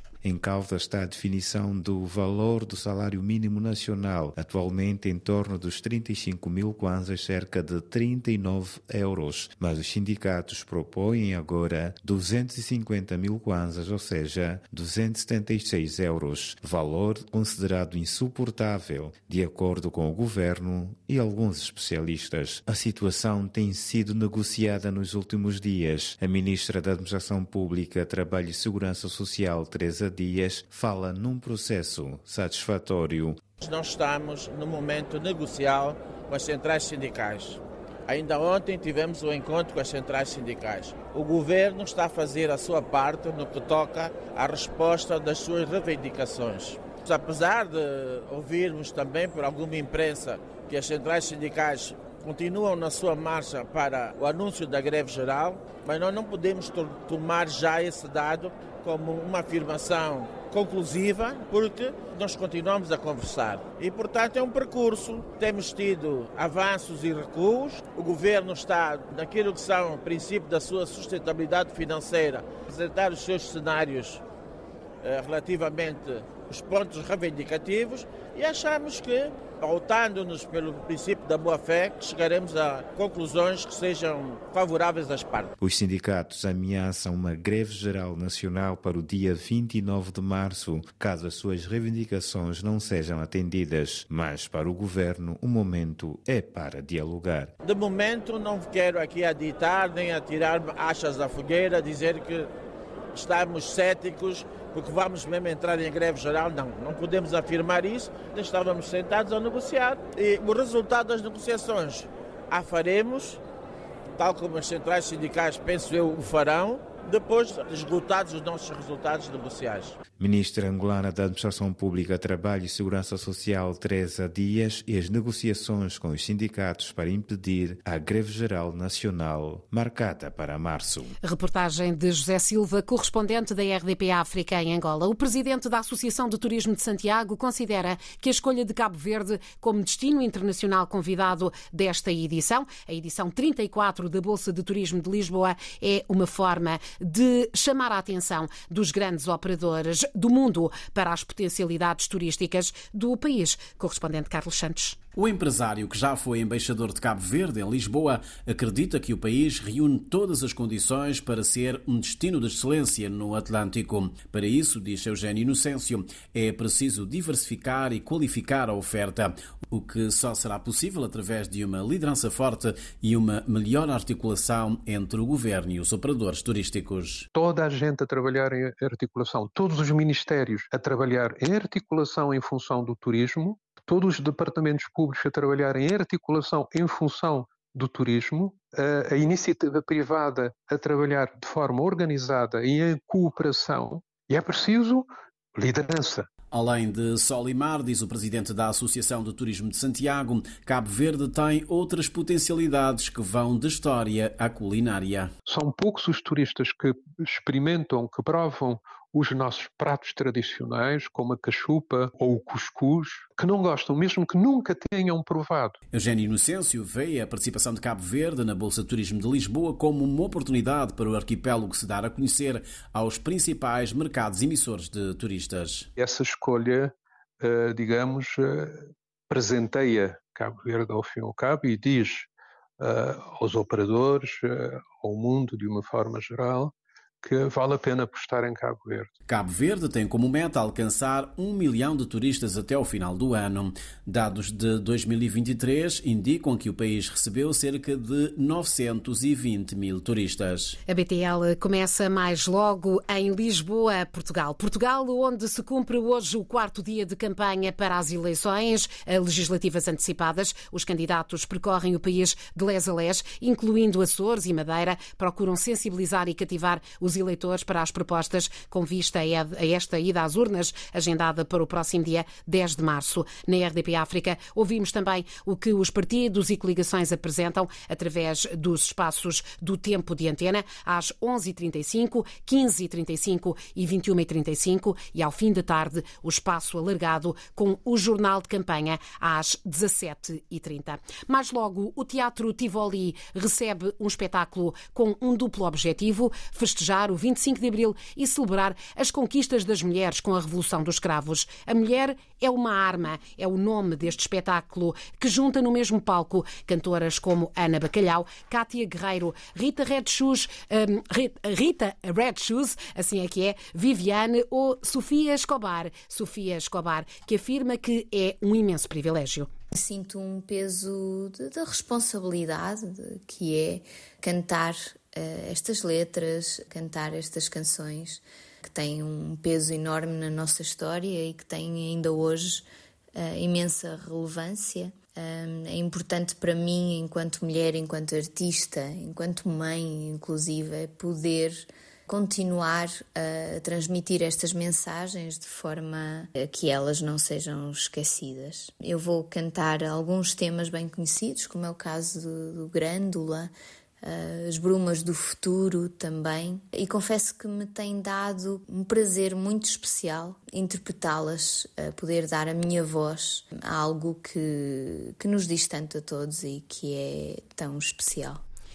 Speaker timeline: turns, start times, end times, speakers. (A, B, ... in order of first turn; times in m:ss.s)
0:00.2-0:33.4 A
0:33.6-1:14.2 B
1:15.0-1:25.5 B
1:25.6-1:37.5 A
1:37.6-1:42.5 B
1:43.1-1:53.4 B
1:54.2-1:59.9 B
2:00.2-2:11.1 A
2:11.2-2:35.0 C
2:35.2-2:57.2 D
2:57.3-3:16.2 E
3:16.5-3:25.3 D
3:25.5-3:35.8 E
3:35.9-3:45.9 D
3:46.0-3:52.3 E
3:52.8-3:59.1 E
3:59.3-4:10.8 D
4:10.8-5:19.5 C
5:19.7-5:32.6 F
5:33.2-5:53.5 F
5:54.0-6:08.4 F